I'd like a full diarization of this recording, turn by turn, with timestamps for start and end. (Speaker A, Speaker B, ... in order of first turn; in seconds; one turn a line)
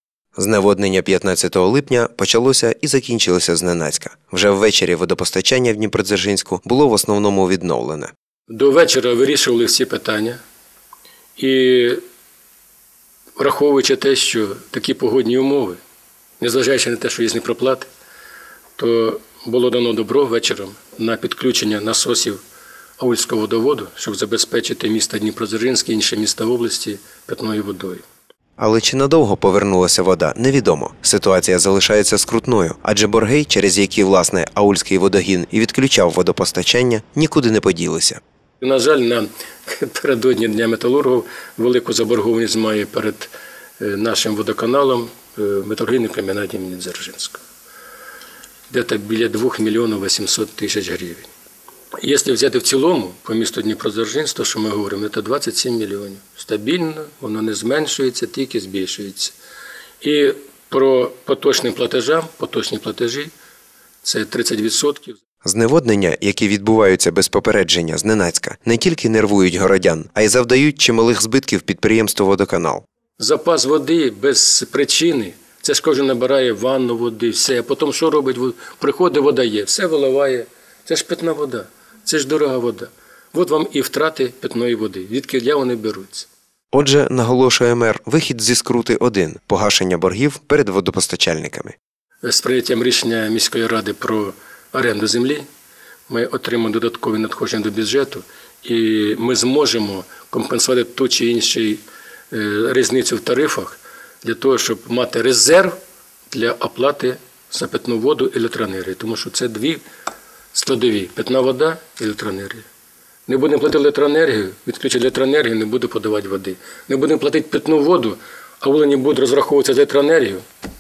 Speaker A: 0.4-8.1
Speaker B: 8.5-10.4
Speaker B: 11.4-12.0
Speaker B: 13.4-15.8
Speaker B: 16.4-17.9
Speaker B: 18.8-22.4
Speaker B: 23.0-28.0
Speaker A: 28.6-38.2
Speaker B: 38.6-47.4
Speaker B: 48.7-51.3
Speaker B: 52.0-59.4
Speaker B: 60.0-63.3
Speaker B: 64.0-65.2
Speaker A: 65.4-72.8
Speaker B: 73.2-86.3
Speaker A: 86.7-91.8
Speaker B: 92.2-95.5
Speaker B: 96.1-105.8
Speaker B: 106.3-109.8
Speaker B: 110.5-112.7
Speaker B: 113.3-120.5